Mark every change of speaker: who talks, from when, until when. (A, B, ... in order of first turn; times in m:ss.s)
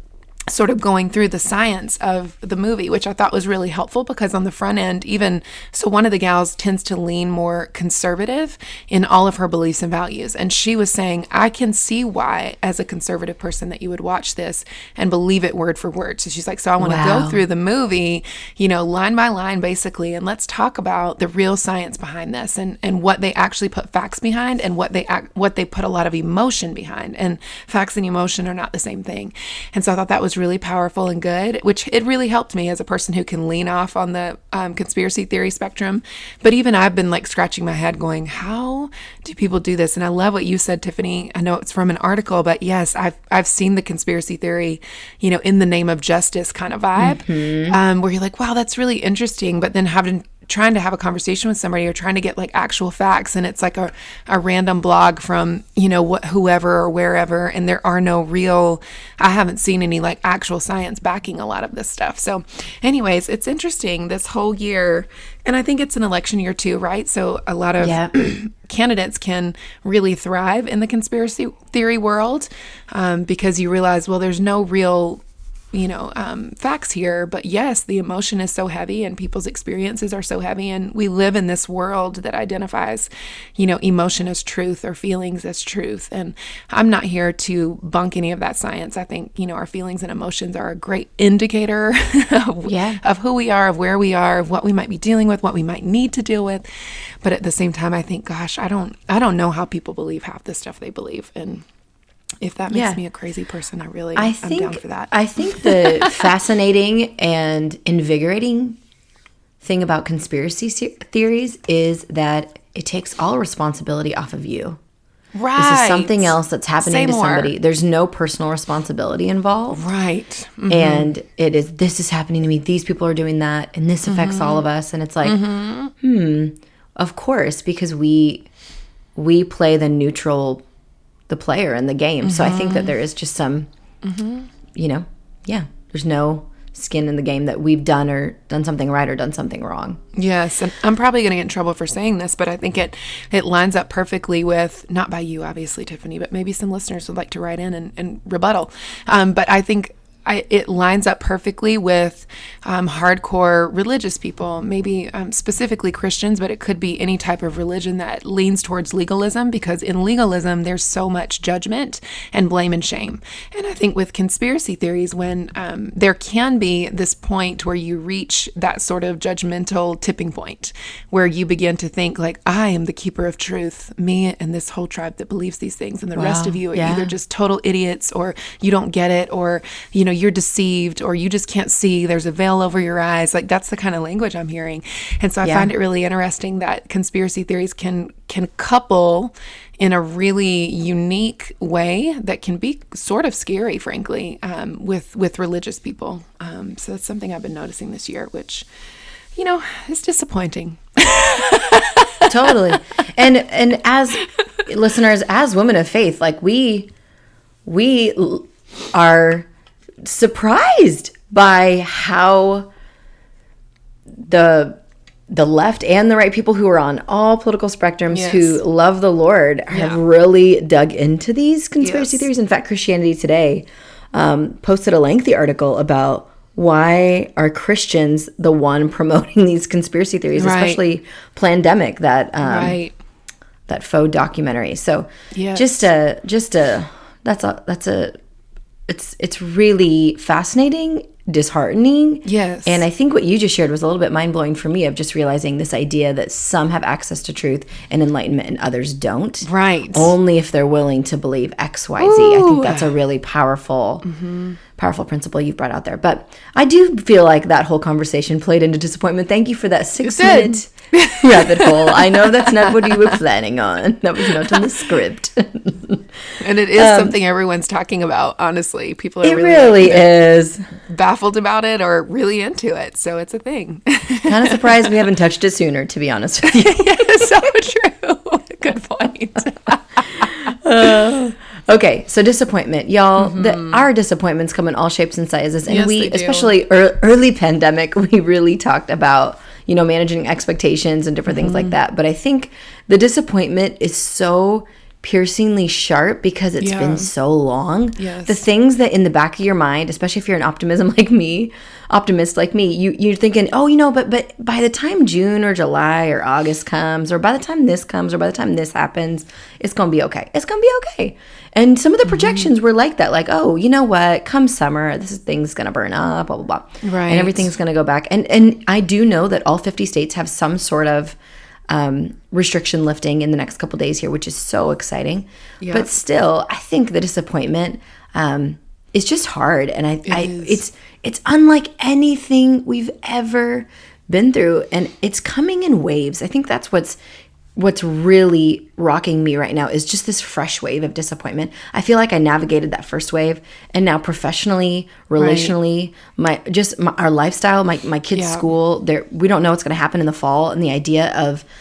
0:00.5-1:41.6 A
0:16.8-0:17.4 B
0:47.0-0:47.8 B
1:07.8-1:08.1 B
1:32.6-1:33.0 B
1:42.4-1:46.3 A
1:42.7-1:43.0 B
1:44.2-1:48.8 B
1:49.6-1:54.8 B
1:55.3-1:57.5 A
1:55.6-1:59.8 B
1:59.7-2:01.1 A
2:00.7-2:05.4 B
2:04.0-2:04.6 A
2:05.2-2:05.9 A
2:06.0-2:08.5 B
2:09.1-2:10.6 B
2:11.3-2:13.7 B
2:12.2-2:12.9 A
2:14.0-2:14.5 A
2:14.7-2:20.0 B
2:20.1-3:18.7 A
2:56.2-2:57.1 B
3:05.4-3:05.7 B
3:19.3-3:22.5 A
3:22.3-3:26.9 B
3:27.6-3:29.5 B
3:30.0-3:32.7 B
3:34.2-3:52.8 B
3:38.1-3:38.6 A
3:39.7-3:40.0 A
3:41.8-3:42.3 A
3:50.4-3:50.8 A
3:52.4-3:52.9 A
3:53.7-3:58.2 B
3:55.3-3:55.8 A
3:58.9-4:14.0 B
4:02.2-4:02.8 A
4:09.4-4:10.1 A
4:12.0-4:12.9 A
4:14.0-4:14.6 A
4:14.8-4:26.0 B
4:20.0-4:23.2 A
4:24.2-4:24.7 A
4:26.4-4:30.1 A
4:26.7-4:27.1 B
4:29.2-4:30.7 B
4:30.8-4:35.0 A
4:34.2-4:37.3 B
4:36.4-4:40.5 A
4:40.5-5:21.2 B
4:43.2-4:43.8 A
4:45.7-4:46.5 A
4:51.3-4:51.8 A
4:56.6-4:57.1 A
4:58.0-4:58.4 A
5:12.2-5:12.5 A
5:16.8-5:17.5 A
5:21.7-5:37.0 B
5:25.6-5:25.9 A
5:30.0-5:30.6 A
5:37.6-5:51.4 B
5:45.2-5:45.5 A
5:48.1-5:48.5 A